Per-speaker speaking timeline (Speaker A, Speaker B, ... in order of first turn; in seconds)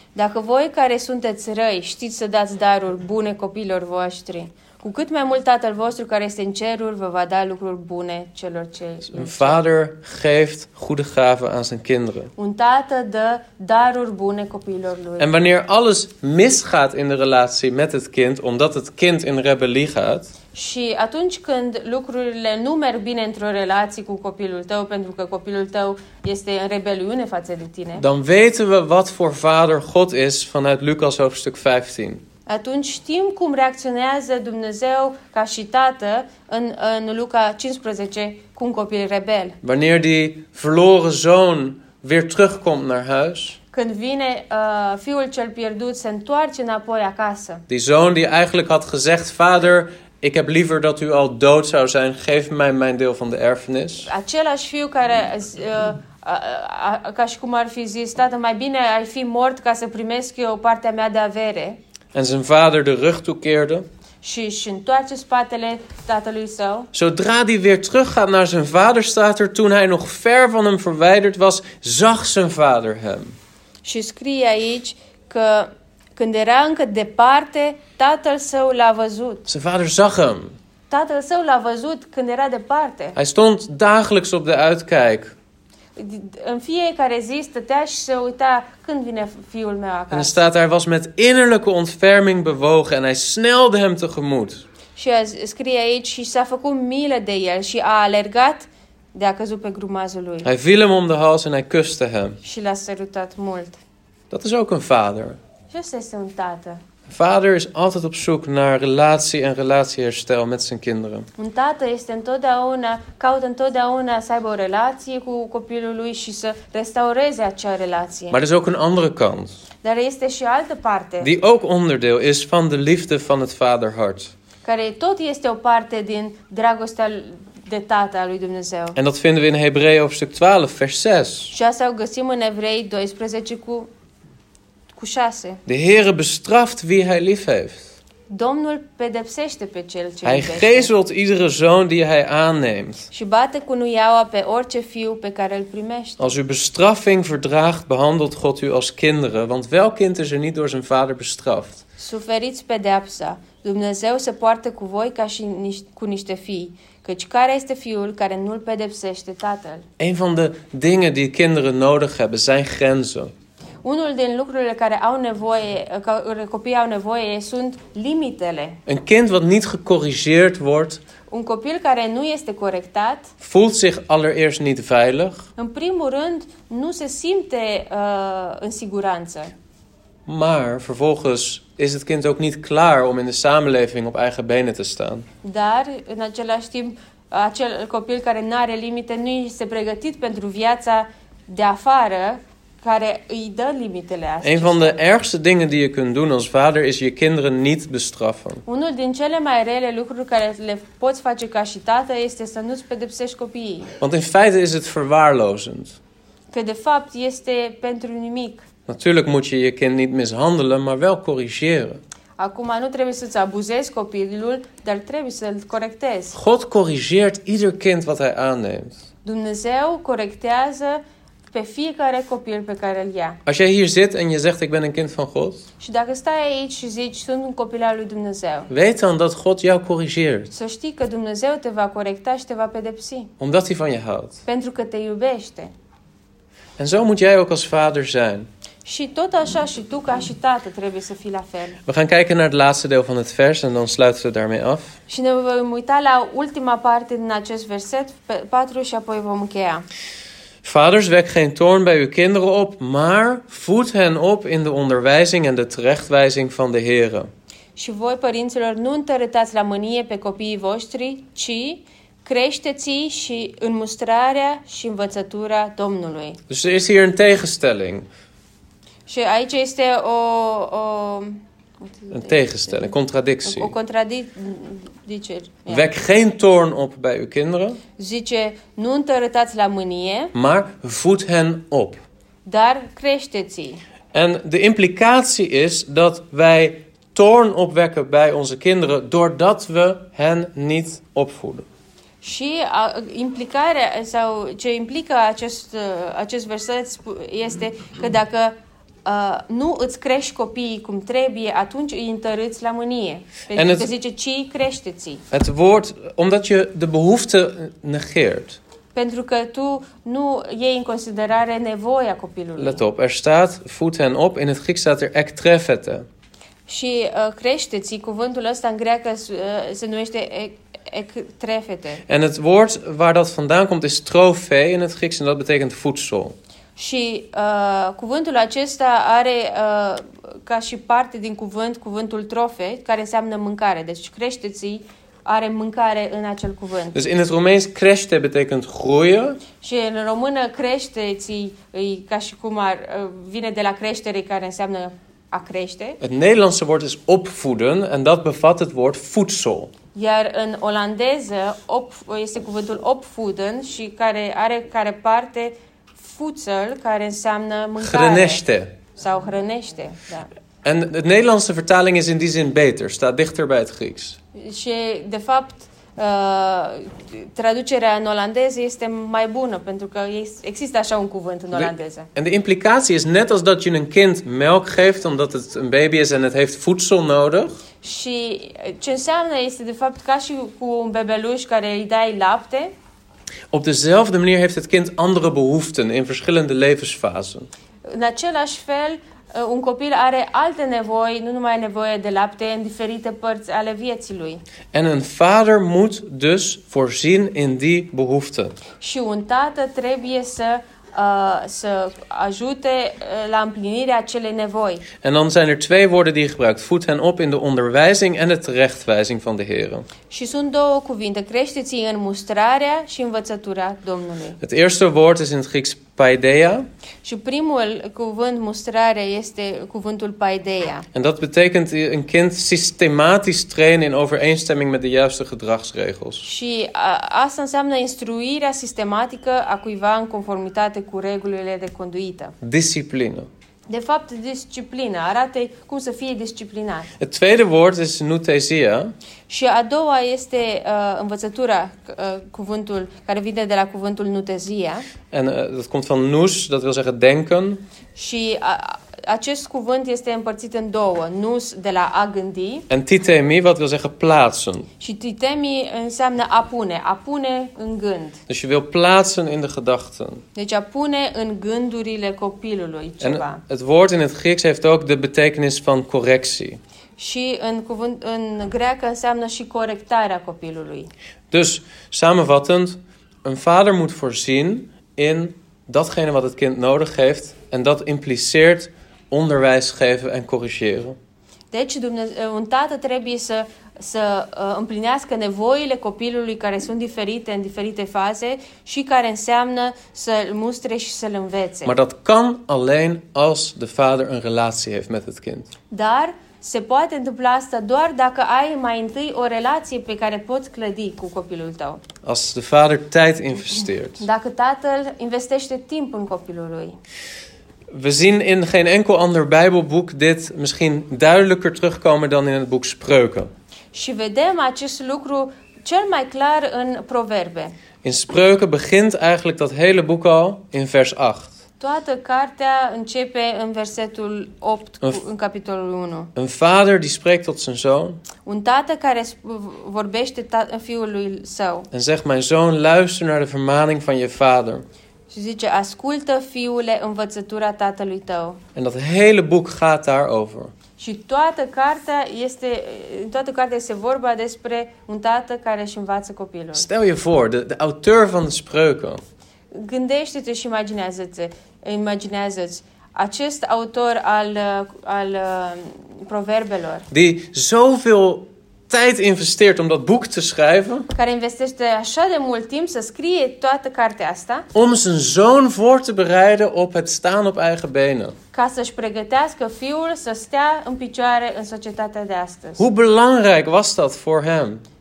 Speaker A: 0.1-9.6, 12.4-15.3, 20.5-28.1, 32.5-39.6, 43.7-47.6, 54.0-61.8, 64.2-66.9, 73.8-79.5, 80.9-83.2, 86.0-90.4, 95.0-100.5, 102.4-103.8, 105.7-106.8, 111.4-118.4, 119.8-121.3, 124.6-129.0, 131.5-133.9, 134.9-135.6, 138.3-140.9, 143.1-146.3, 152.0-159.8, 163.8-168.8, 171.3-173.3, 175.6-179.5, 185.4-195.0, 198.7-203.9, 206.5-208.7, 212.4-216.4, 219.2-223.4, 225.8-228.7, 230.5-233.3, 234.4-235.7, 238.8-241.8, 245.1-249.9, 257.8-266.4, 269.1-275.9, 278.0-280.3, 282.4-283.8, 292.2-305.2, 308.9-312.8, 316.7-322.0, 326.8-337.0, 339.6-346.0, 349.9-358.4, 358.9-360.3, 364.4-372.1, 377.8-382.7, 387.9-394.4, 398.8-404.9, 410.1-414.4, 417.0-420.9, 426.2-432.4, 433.7-436.9, 439.3-444.9, 447.9-452.7, 454.8-458.2, 460.4-463.4, 467.0-470.9, 481.5-491.7, 495.7-501.8, 504.0-506.8, 513.7-517.5, 521.6-526.1, 528.2-531.7, 535.1-538.4, 540.8-546.7, 549.5-556.9, 560.9-564.5, 568.3-572.6
Speaker B: 9.1-12.3, 15.2-20.3, 28.0-32.2, 39.6-43.6, 47.7-54.1, 62.1-63.9, 66.9-73.3, 79.5-80.5, 83.2-85.3, 90.1-94.6, 100.4-102.4, 104.3-105.4, 107.1-111.3, 118.3-119.6, 121.2-124.3, 128.9-131.5, 135.7-137.9, 140.2-143.1, 146.2-151.8, 160.0-163.3, 168.9-171.0, 173.4-175.4, 180.3-185.3, 194.4-198.6, 204.0-206.0, 208.9-212.0, 216.3-219.0, 223.4-225.6, 228.7-230.5, 233.4-234.4, 236.8-238.5, 241.9-244.9, 250.6-257.3, 266.5-268.1, 272.1-273.7, 275.7-277.8, 280.3-282.0, 284.1-291.6, 303.5-303.9, 305.3-308.6, 312.6-316.1, 322.1-326.4, 336.9-339.4, 346.0-349.7, 357.8-358.7, 360.6-364.2, 371.5-377.6, 383.5-387.5, 394.7-398.6, 405.0-409.9, 414.4-416.7, 420.9-426.2, 432.4-433.3, 437.0-438.9, 445.1-447.6, 452.7-454.7, 458.3-460.2, 463.0-466.6, 471.3-481.0, 491.6-495.5, 502.0-504.0, 507.7-513.3, 517.8-521.4, 526.1-528.0, 531.7-534.6, 538.6-540.5, 546.5-549.0, 556.9-560.9, 564.5-568.1, 572.6-574.6